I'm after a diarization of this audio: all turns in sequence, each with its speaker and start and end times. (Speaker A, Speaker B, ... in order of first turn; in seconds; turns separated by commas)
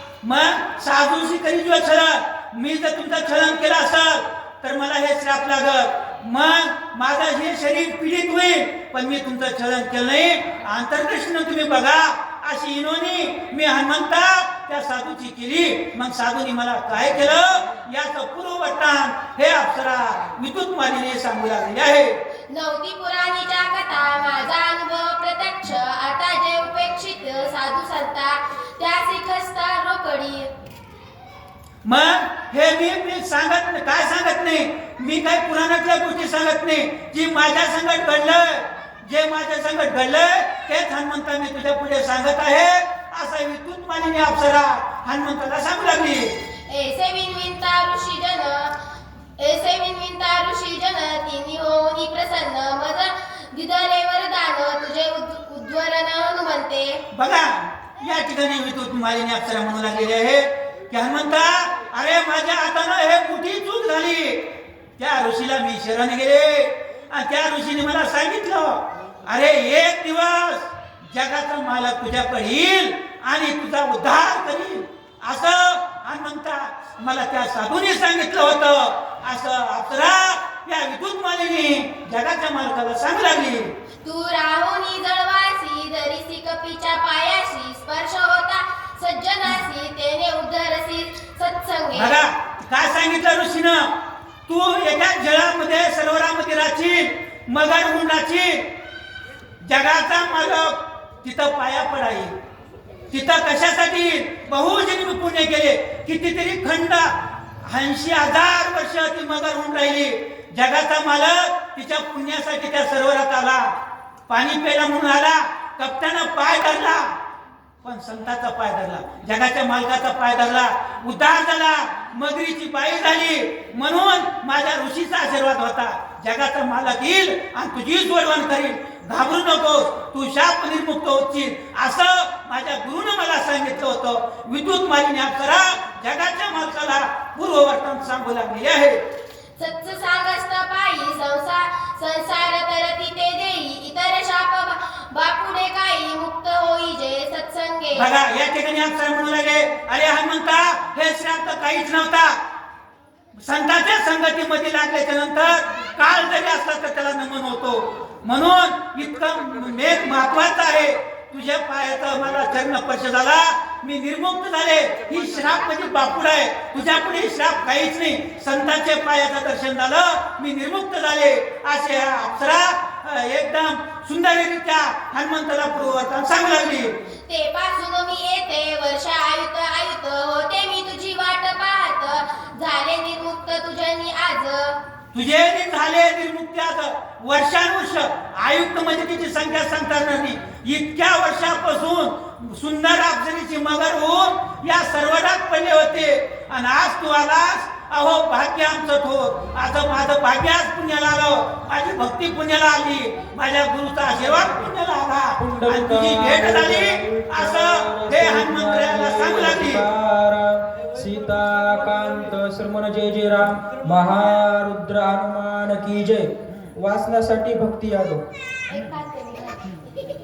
Speaker A: 0.2-22.2, Speaker B: 22.5-30.5, Speaker A: 31.8-46.3, Speaker B: 46.7-48.8, Speaker B: 49.4-57.0, Speaker A: 57.1-64.4, Speaker A: 65.0-83.7, Speaker B: 84.0-92.2, Speaker A: 91.9-93.9, Speaker A: 94.5-98.6, Speaker A: 99.6-102.3, Speaker A: 103.1-113.7, Speaker A: 114.3-117.1, Speaker A: 117.8-139.0, Speaker B: 139.6-148.1, Speaker A: 147.9-152.4, Speaker A: 153.3-176.9, Speaker B: 177.2-184.8, Speaker A: 185.1-209.8, Speaker C: 205.4-218.2, Speaker A: 218.7-219.1, Speaker B: 218.7-219.6